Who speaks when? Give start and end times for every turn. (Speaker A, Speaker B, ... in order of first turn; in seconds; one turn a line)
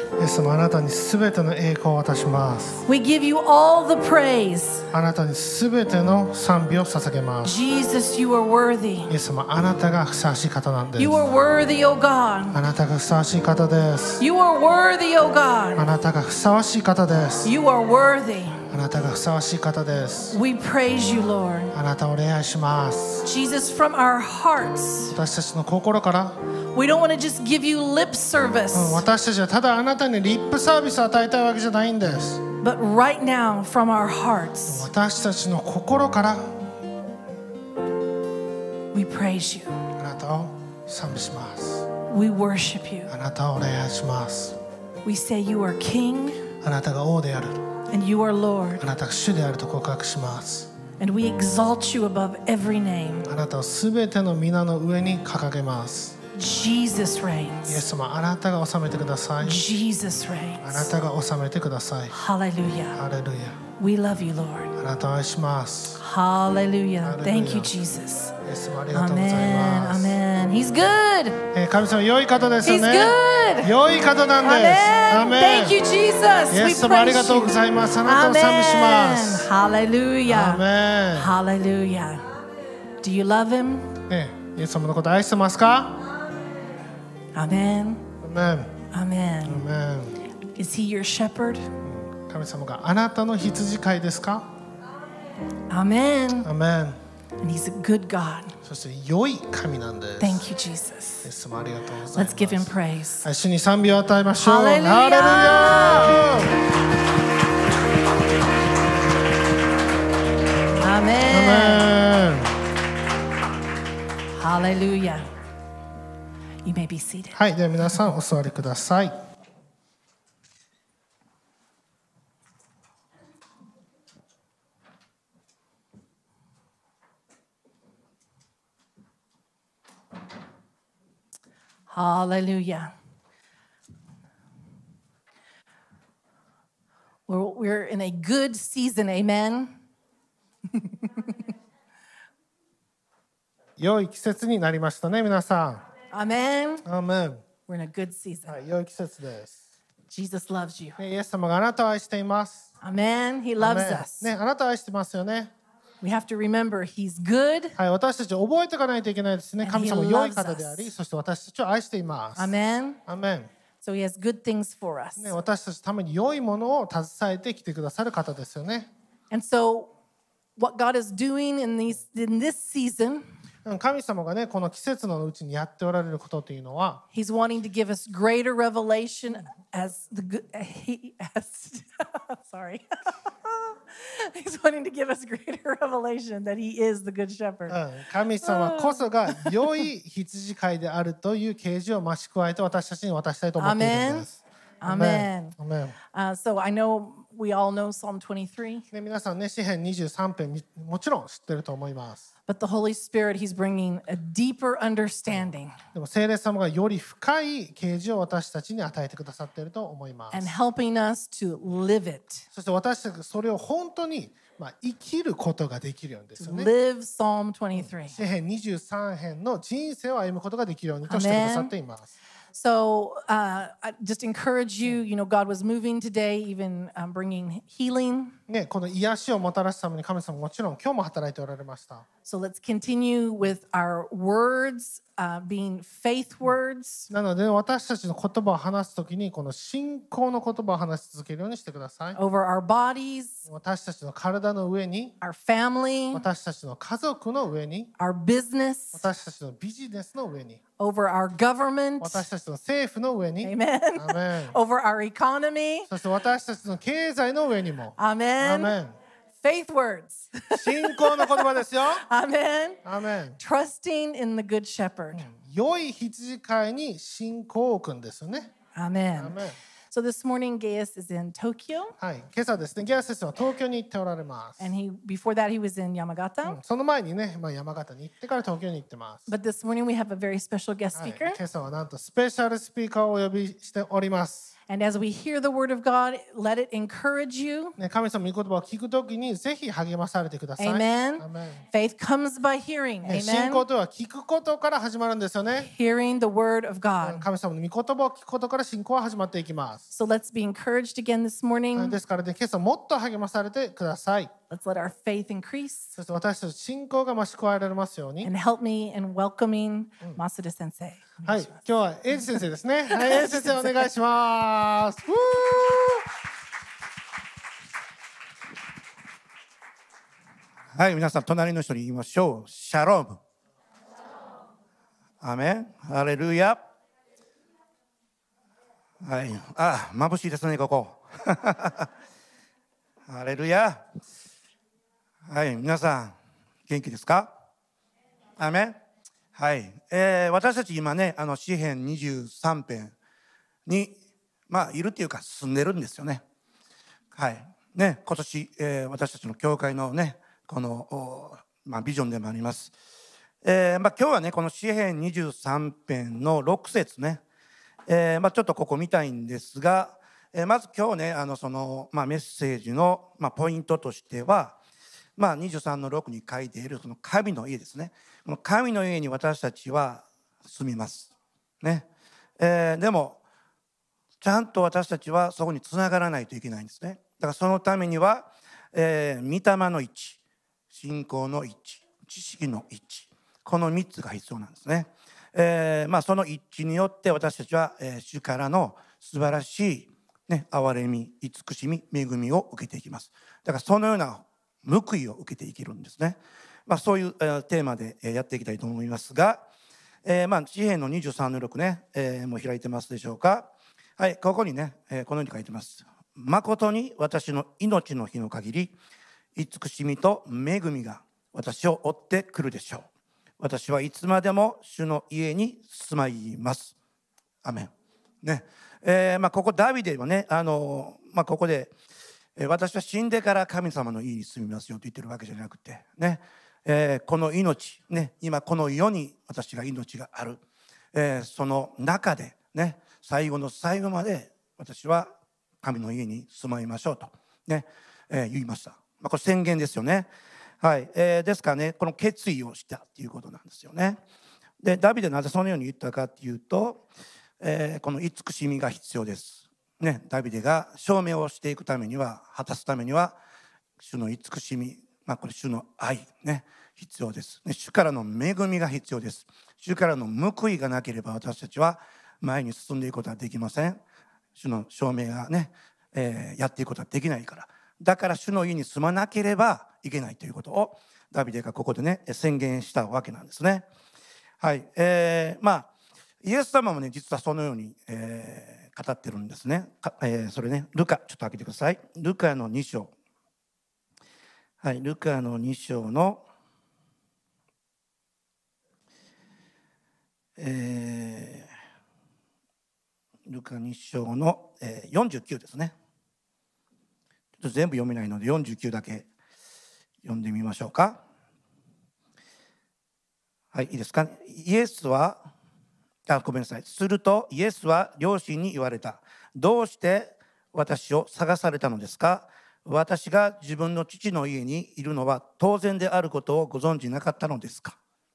Speaker A: 0.2-2.9
Speaker B: 2.9-4.9
Speaker A: 4.9-7.5
Speaker B: 7.4-9.1
Speaker A: 9.1-11.2
Speaker B: 11.0-12.6
Speaker A: 12.5-14.2
Speaker B: 14.2-15.9
Speaker A: 15.8-17.5
Speaker B: 17.4-18.6
Speaker A: 18.7-20.4
Speaker B: 20.3-21.7
Speaker A: 21.7-23.3
Speaker B: 23.2-25.2
Speaker A: 25.1-26.4
Speaker B: 26.7-29.0
Speaker A: 28.7-32.5
Speaker B: 32.6-34.9
Speaker A: 34.7-36.6
Speaker B: 38.9-39.9
Speaker A: 40.0-41.9
Speaker B: 42.1-43.1
Speaker A: 43.1-44.6
Speaker B: 45.0-46.5
Speaker A: 46.6-47.6
Speaker B: 47.9-48.9
Speaker A: 48.8-50.7
Speaker B: 51.0-53.3
Speaker A: 53.3-56.2
Speaker B: 56.4-57.8
Speaker A: 57.7-59.6
Speaker B: 59.4-60.9
Speaker A: 60.6-62.1
Speaker B: 62.1-63.0
Speaker A: 63.0-63.6
Speaker B: 63.7-64.8
Speaker A: 64.8-66.0
Speaker B: 66.0-68.3
Speaker A: 67.0-67.7
Speaker A: 68.4-70.2
Speaker B: 68.9-71.5
Speaker A: 71.5-75.8
Speaker B: 72.6-73.7
Speaker B: 74.4-82.3
Speaker A: 76.5-79.5
Speaker A: 80.3-81.3
Speaker B: 83.0-84.0
Speaker A: 84.1-86.0
Speaker B: 87.3-88.1
Speaker A: 88.2-88.8
Speaker B: 88.9-89.7
Speaker A: 89.5-90.2
Speaker B: 90.5-91.7
Speaker A: 91.8-94.5
Speaker B: 95.7-96.5
Speaker A: 96.5-97.0
Speaker B: 97.4-98.6
Speaker A: 98.6-100.5
Speaker B: 100.2-101.3
Speaker A: 101.2-102.7
Speaker B: 102.2-103.3
Speaker A: 103.2-106.5
Speaker B: 104.4-106.5
Speaker B: 110.8-111.9
Speaker A: 111.3-112.6
Speaker B: 114.3-115.3
Speaker B: 116.6-117.4
Speaker A: 117.3-119.2
Speaker B: 131.9-132.9
Speaker B: 137.3-139.8
Speaker B: 140.8-141.3
Speaker A: 143.8-145.9
Speaker B: 146.1-146.9
Speaker A: 146.9-147.4
Speaker B: 147.7-148.6
Speaker A: 148.5-149.6
Speaker B: 150.1-151.0
Speaker A: 151.0-152.7
Speaker B: 152.8-154.3
Speaker A: 153.6-155.5
Speaker B: 156.0-157.8
Speaker A: 157.8-162.5
Speaker B: 159.6-160.9
Speaker B: 162.4-163.0
Speaker A: 163.1-163.5
Speaker B: 163.8-165.3
Speaker A: 165.2-168.9
Speaker B: 169.3-169.9
Speaker B: 170.6-173.3
Speaker A: 173.7-177.0
Speaker B: 177.1-187.8
Speaker A: 187.7-196.0
Speaker B: 188.4-189.6
Speaker B: 193.6-194.3
Speaker B: 194.8-195.6
Speaker B: 196.1-198.9
Speaker A: 198.9-202.3
Speaker B: 202.5-205.8
Speaker A: 205.4-210.5
Speaker B: 210.3-212.4
Speaker A: 212.5-216.7
Speaker B: 216.4-218.2
Speaker A: 218.1-222.1
Speaker B: 221.1-221.7
Speaker B: 222.5-228.4
Speaker A: 228.5-232.1
Speaker B: 232.2-237.1
Speaker A: 237.1-242.2
Speaker B: 242.2-243.5
Speaker A: 243.5-245.2
Speaker B: 245.2-246.2
Speaker A: 246.1-247.9
Speaker B: 248.0-249.1
Speaker A: 248.9-250.6
Speaker B: 250.8-252.3
Speaker A: 252.0-254.6
Speaker B: 253.4-255.9
Speaker A: 255.9-259.0
Speaker B: 258.0-258.8
Speaker B: 259.4-262.8
Speaker A: 260.6-262.0
Speaker A: 262.9-263.4
Speaker B: 263.4-265.3
Speaker A: 265.1-268.5
Speaker B: 268.8-269.4
Speaker A: 269.2-269.6
Speaker B: 269.9-272.0
Speaker A: 272.0-274.7
Speaker B: 274.6-276.6
Speaker A: 276.4-279.3
Speaker B: 279.3-281.4
Speaker A: 281.0-284.5
Speaker B: 284.7-287.8
Speaker A: 287.8-291.6
Speaker B: 290.6-293.7
Speaker A: 293.1-295.7
Speaker B: 295.6-297.3
Speaker A: 297.0-299.8
Speaker B: 299.9-302.0
Speaker A: 301.8-304.3
Speaker B: 304.5-306.0
Speaker A: 306.0-308.3
Speaker B: 308.2-311.5
Speaker A: 311.2-316.1
Speaker B: 312.9-313.7
Speaker C: 320.7-323.2
Speaker C: 325.2-326.6
Speaker C: 329.0-331.9
Speaker C: 333.1-333.8
Speaker C: 335.2-336.2
Speaker C: 336.7-337.3
Speaker C: 338.4-338.8
Speaker C: 339.4-342.9
Speaker C: 343.7-344.0
Speaker C: 344.5-346.2
Speaker C: 347.1-352.7
Speaker C: 353.4-357.2
Speaker C: 357.9-364.6
Speaker C: 365.2-371.9
Speaker C: 372.4-373.2
Speaker C: 374.2-380.2
Speaker C: 380.7-399.4
Speaker C: 400.0-408.8
Speaker C: 409.4-412.9
Speaker C: 413.4-416.8
Speaker C: 417.4-417.7
Speaker C: 418.2-421.7
Speaker C: 422.4-430.4
Speaker C: 430.9-440.1
Speaker C: 440.6-444.0
Speaker C: 444.6-446.9
Speaker C: 447.4-453.2
Speaker C: 453.8-463.8
Speaker C: 464.4-473.7
Speaker C: 474.4-475.7
Speaker C: 476.2-482.9
Speaker C: 484.6-486.2
Speaker C: 490.4-491.5
Speaker C: 493.3-495.8
Speaker C: 497.4-499.1
Speaker C: 500.0-501.0
Speaker C: 503.5-505.3
Speaker C: 506.1-517.8